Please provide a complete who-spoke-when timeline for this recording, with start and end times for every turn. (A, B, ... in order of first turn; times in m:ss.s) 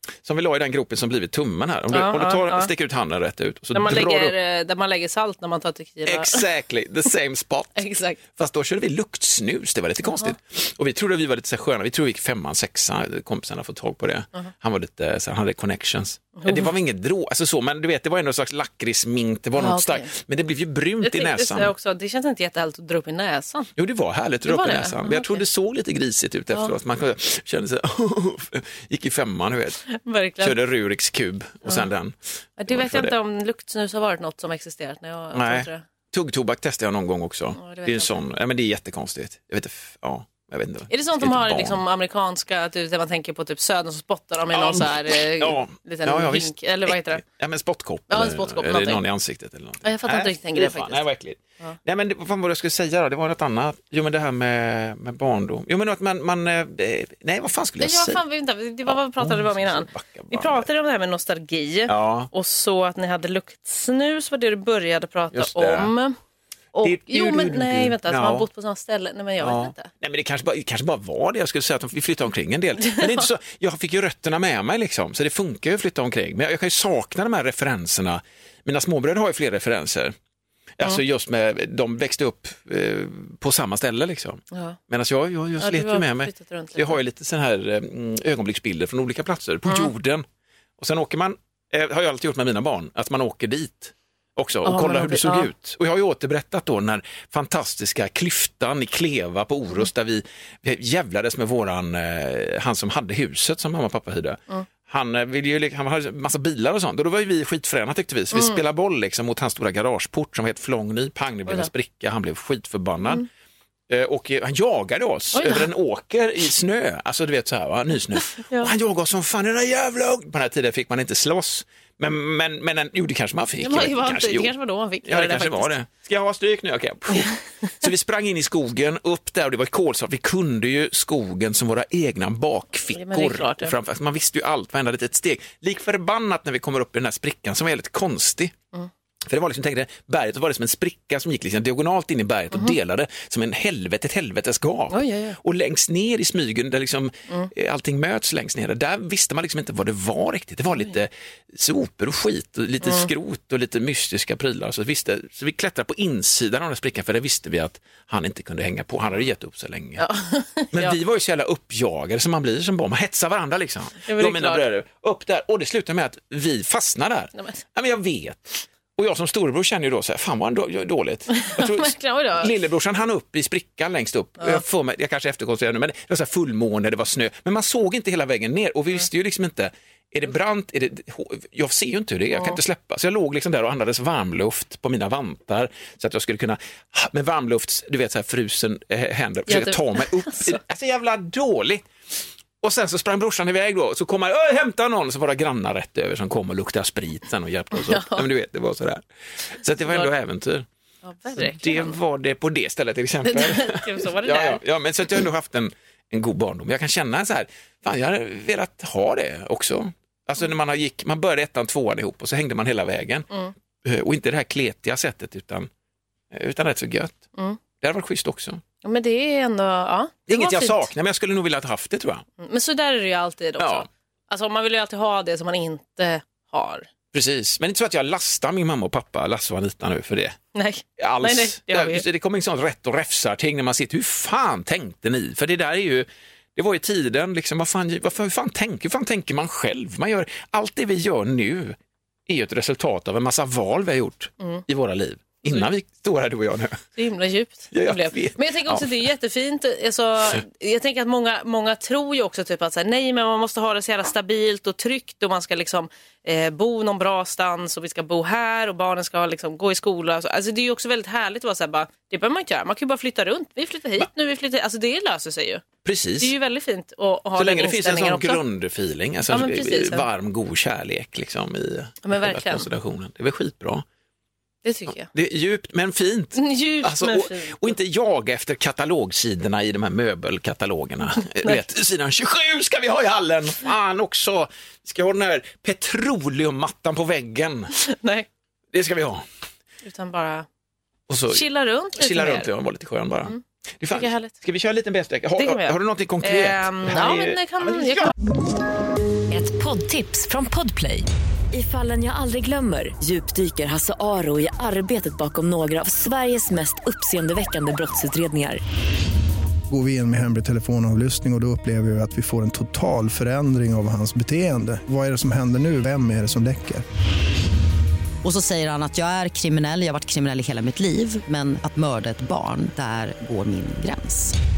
0:00.2-0:04.3 A
0:01.9-0:02.7 B
0:03.7-0:06.4 B
0:06.0-0:07.8 A
0:07.8-0:08.2 B
0:08.3-0:21.7 A
0:10.0-0:10.4 B
0:16.4-0:16.7 B
0:19.6-0:20.1 B
0:21.0-0:23.7 B
0:23.8-0:29.8 A
0:24.4-0:25.4 B
0:29.9-0:30.6 B
0:30.4-0:32.2 A
0:32.6-0:35.8 B
0:32.7-0:33.1 A
0:35.3-0:41.8 A
0:37.6-0:38.2 B
0:40.9-0:47.2 B
0:44.5-0:58.2 A
0:48.1-0:49.0 B
0:49.8-0:51.0 B
0:57.8-1:06.2 B
0:58.9-1:00.7 A
1:01.9-1:02.3 A
1:05.3-1:05.9 A
1:06.7-1:09.9 B
1:06.8-1:08.5 A
1:09.4-1:20.1 A
1:12.8-1:13.2 B
1:20.8-1:30.2 A
1:24.5-1:24.8 B
1:25.6-1:27.0 B
1:30.8-1:53.2 A
1:34.6-1:35.5 B
1:48.3-1:48.6 B
1:53.9-2:04.5 A
1:55.3-1:55.7 B
1:58.3-1:58.7 B
2:03.6-2:05.7 B
2:05.0-2:18.5 A
2:12.9-2:13.7 B
2:19.2-2:40.0 A
2:24.9-2:25.4 B
2:32.8-2:33.1 B
2:40.0-2:41.0 B
2:40.7-3:11.8 A
2:44.0-2:44.6 B
2:47.4-2:47.6 B
2:51.3-2:52.5 B
3:09.5-3:10.6 B
3:12.6-3:20.6 A
3:17.8-3:18.2 B
3:21.0-3:22.0 B
3:21.4-3:33.3 A
3:23.2-3:24.6 B
3:33.8-3:35.7 A
3:36.3-3:37.2 A
3:37.8-3:38.6 A
3:38.8-3:40.9 B
3:40.3-3:42.2 A
3:42.4-3:46.9 B
3:43.6-3:43.9 A
3:47.1-3:50.4 A
3:50.5-3:52.0 B
3:51.0-4:06.8 A
4:04.4-4:04.6 B
4:07.0-4:25.6 B
4:07.7-4:09.0 A
4:25.8-4:26.3 A
4:26.2-4:28.4 B
4:27.4-4:33.8 A
4:29.3-4:30.0 B
4:32.0-4:32.7 B
4:34.6-4:35.1 B
4:34.9-4:47.7 A
4:36.4-4:37.7 B
4:47.7-4:48.3 B
4:48.7-4:49.2 A
4:49.8-4:50.5 B
4:51.1-4:51.4 A
4:51.3-4:52.5 B
4:52.0-4:58.1 A
4:53.9-4:54.4 B
4:55.4-4:58.1 B
4:59.3-5:08.6 C
5:09.7-5:16.8 D
5:18.2-5:24.4 E